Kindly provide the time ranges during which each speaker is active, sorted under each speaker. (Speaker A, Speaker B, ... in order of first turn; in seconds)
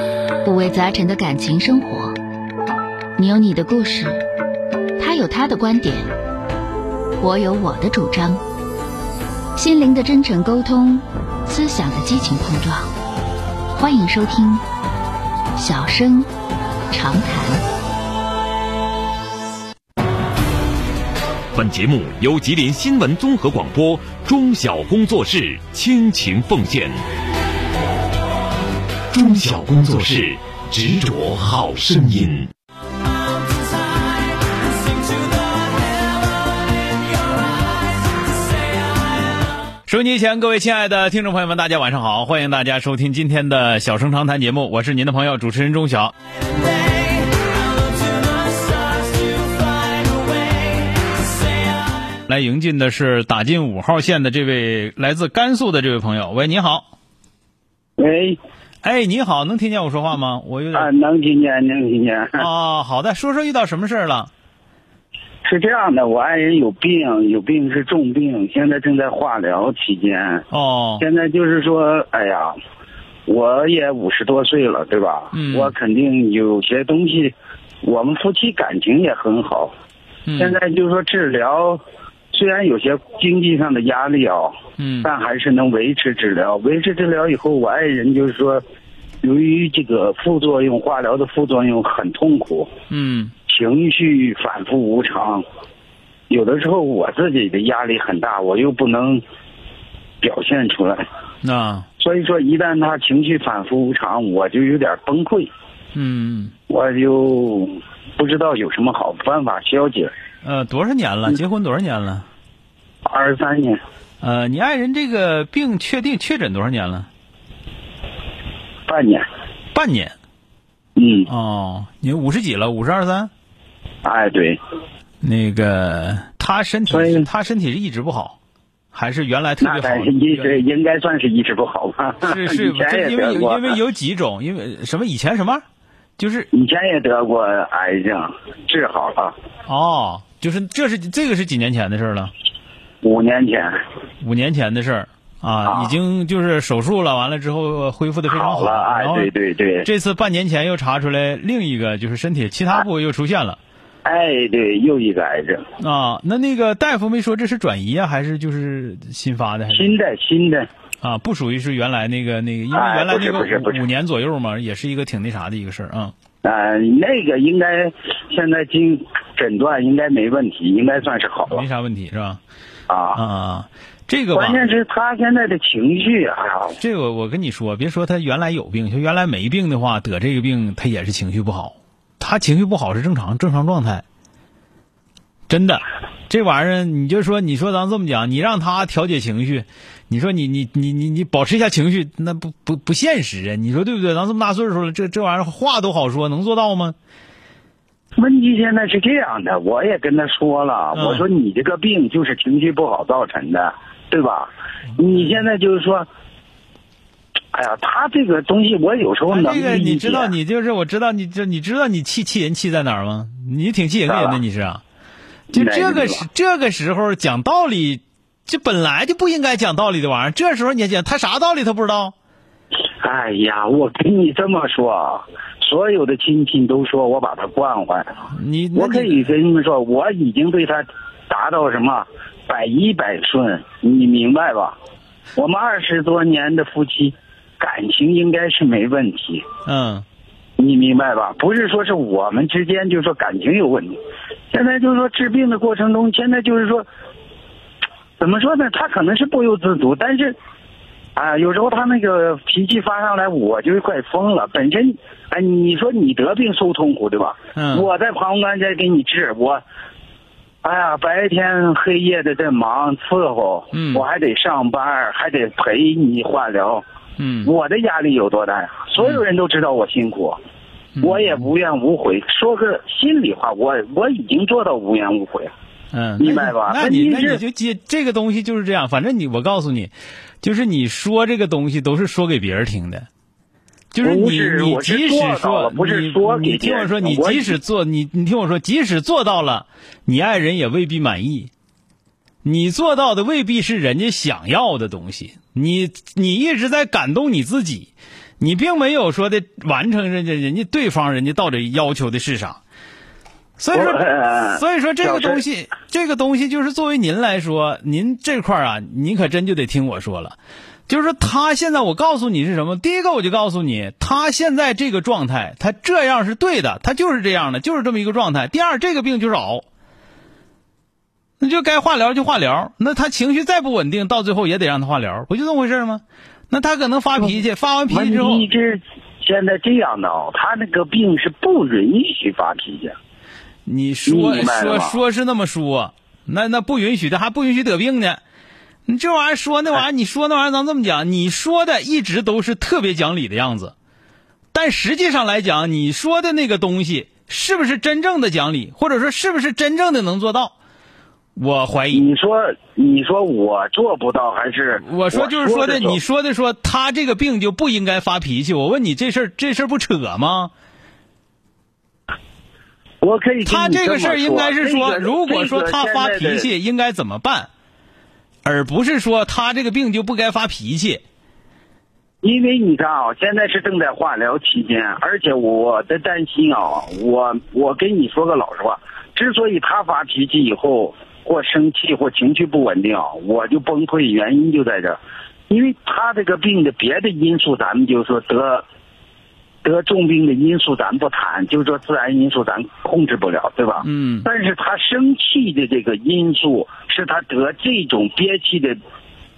Speaker A: 0.4-2.2, 3.2-4.2, 5.0-6.1, 7.2-8.4, 9.5-12.9, 13.7-14.6, 15.6-16.3, 16.9-17.6, 48.6-50.5
Speaker B: 21.5-27.0, 29.1-32.5
Speaker C: 39.9-46.1, 52.3-56.9, 58.8-60.9, 62.4-64.3, 70.5-71.0, 75.3-75.7, 80.2-80.6, 84.8-85.1, 92.9-93.3, 101.4-101.8, 105.9-106.5, 110.4-112.2, 114.2-117.1, 119.7-120.1, 121.3-123.3, 125.2-128.3, 128.9-130.6, 132.2-135.6, 136.2-136.5, 139.7-142.3, 144.2-149.3, 149.8-153.6, 155.8-160.0, 161.0-166.1, 171.5-172.4, 173.1-174.6, 176.8-184.0, 185.5-196.9, 200.9-201.2, 209.3-214.8, 215.5-222.1, 228.3-229.3, 239.7-240.0, 257.6-257.9, 263.7-264.0, 267.2-267.5, 271.0-271.4, 275.9-283.1, 283.9-291.5, 292.4-302.6, 303.6-310.4, 310.9-319.6, 321.4-328.4, 333.6-338.2, 338.9-343.7, 344.5-350.5, 351.4-352.0, 354.8-360.5, 363.4-367.5, 368.4-371.0, 393.8-394.3
Speaker D: 58.0-58.4, 60.7-62.5, 65.4-70.4, 71.0-72.5, 73.3-79.7, 80.4-81.8, 82.3-88.6, 89.2-92.7, 93.5-95.4, 96.3-99.2, 100.2-101.0, 102.0-105.5, 106.7-110.1, 113.0-113.8, 118.9-119.2, 121.0-121.3, 124.0-124.6, 126.9-127.3, 129.6-133.8, 136.5-139.3, 143.0-143.8, 145.7-145.9, 148.3-149.9, 154.0-155.6, 159.7-160.7, 162.7-163.8, 166.4-171.6, 172.9-173.2, 174.3-176.8, 198.2-206.1, 207.5-210.3, 214.1-214.4, 215.5-216.2, 223.0-228.2, 228.8-234.8, 235.3-239.4, 240.6-244.0, 244.5-246.8, 248.2-250.3, 251.2-259.6, 260.6-266.8, 267.4-270.4, 271.0-275.5, 276.2-277.4, 284.0-287.6, 303.7-305.4, 327.9-332.9, 334.1-335.0, 351.9-356.0, 363.0-366.4, 372.2-385.0, 385.5-388.6, 389.6-398.8